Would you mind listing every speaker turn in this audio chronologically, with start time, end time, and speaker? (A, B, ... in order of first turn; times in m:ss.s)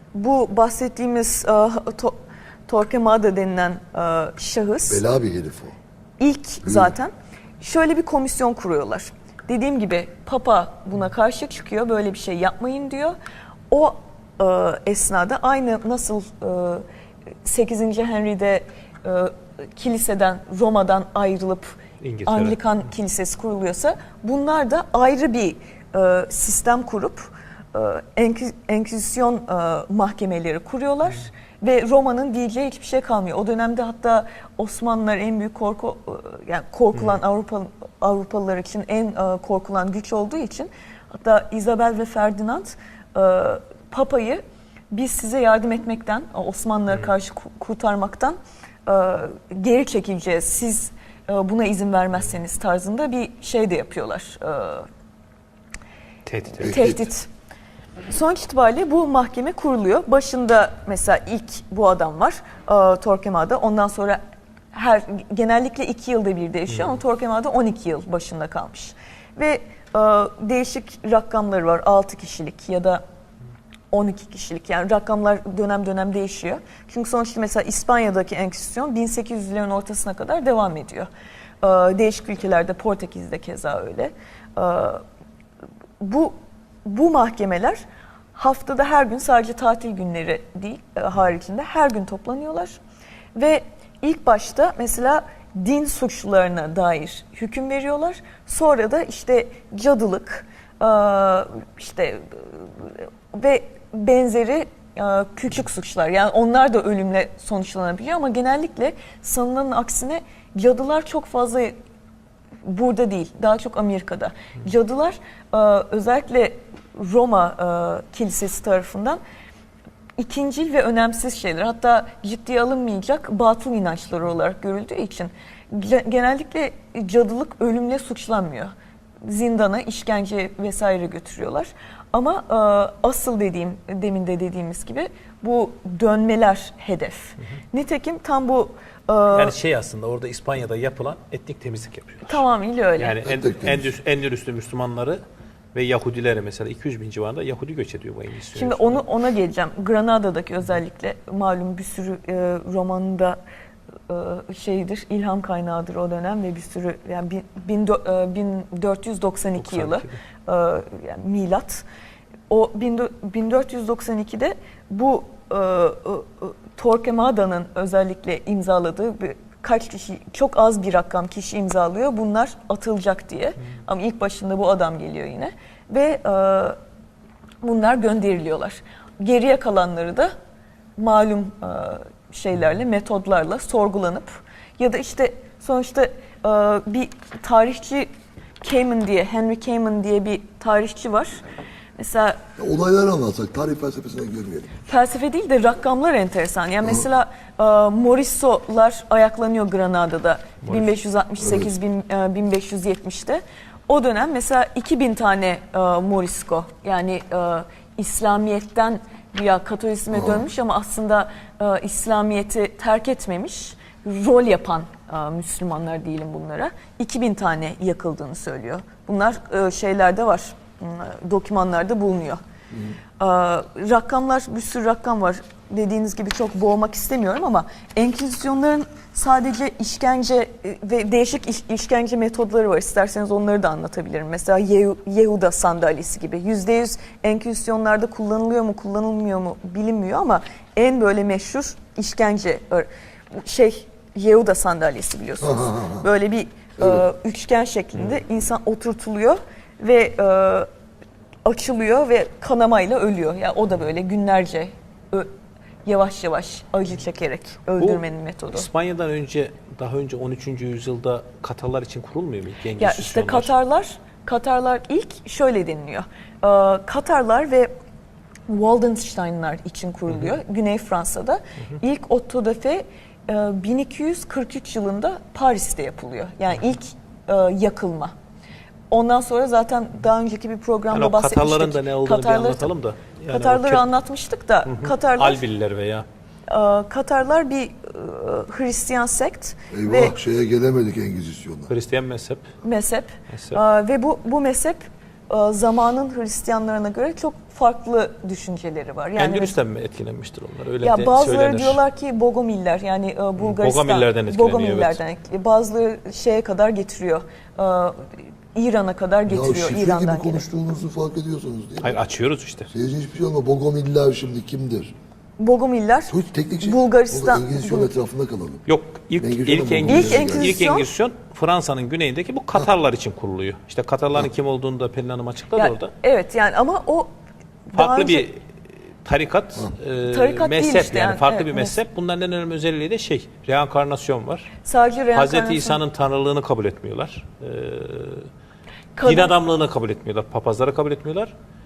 0:00.1-0:05.0 A
0:04.9-0:05.8 B
0:06.2-0:13.2 A
0:06.6-0:06.9 B
0:13.7-0:16.8 A
0:17.4-0:54.9 A
0:22.0-0:22.6 C
0:56.3-0:56.9 C
0:56.6-0:57.3 A
0:56.6-0:57.1 B
0:58.1-1:04.2 A
1:04.7-1:13.0 A
1:06.7-1:07.0 C
1:13.9-1:21.1 A
1:21.6-1:25.0 A
1:26.0-1:27.8 A
1:28.3-1:32.8 A
1:33.4-1:51.8 A
1:52.6-1:59.2 A
2:00.2-2:19.6 A
2:19.3-2:22.4 C
2:22.3-2:23.2 A
2:23.0-2:25.2 C
2:23.2-2:23.9 B
2:25.7-2:29.0 C
2:28.5-2:33.4 A
2:34.1-2:41.8 A
2:39.6-2:40.2 C
2:42.5-2:56.8 A
2:57.6-3:00.3 A
3:01.0-3:08.1 A
3:08.6-3:11.4 A
3:12.0-3:12.4 A
3:12.6-3:14.8 B
3:14.8-3:42.4 A
3:20.6-3:20.9 C
3:21.4-3:21.7 B
3:30.1-3:30.4 B
3:43.2-4:10.7 A
4:05.4-4:06.1 B
4:06.8-4:07.0 B
4:11.4-4:15.3 A
4:15.8-4:18.7 A
4:17.8-4:23.5 C
4:22.8-4:27.7 A
4:28.5-4:38.1 A
4:38.9-4:42.7 A
4:40.9-4:43.8 C
4:43.3-4:45.4 A
4:44.7-4:46.1 C
4:46.5-4:50.2 A
4:49.7-4:51.7 B
4:51.7-4:52.5 C
4:52.6-4:59.6 A
4:53.3-4:53.6 C
4:59.2-5:01.8 C
5:00.8-5:10.4 A
5:03.4-5:05.0 C
5:09.3-5:12.0 B
5:11.8-5:12.7 C
5:12.7-5:14.9 B
5:15.4-5:17.9 A
5:16.1-5:18.6 B
5:18.7-5:25.9 C
5:19.2-5:20.6 B
5:19.9-5:20.9 A
5:25.6-5:27.1 A
5:27.7-5:28.3 A
5:27.8-5:28.3 C
5:29.0-5:34.5 C
5:30.1-5:31.8 A
5:34.6-5:35.8 A
5:35.1-5:38.3 C
5:39.0-5:39.4 A
5:39.0-5:41.3 C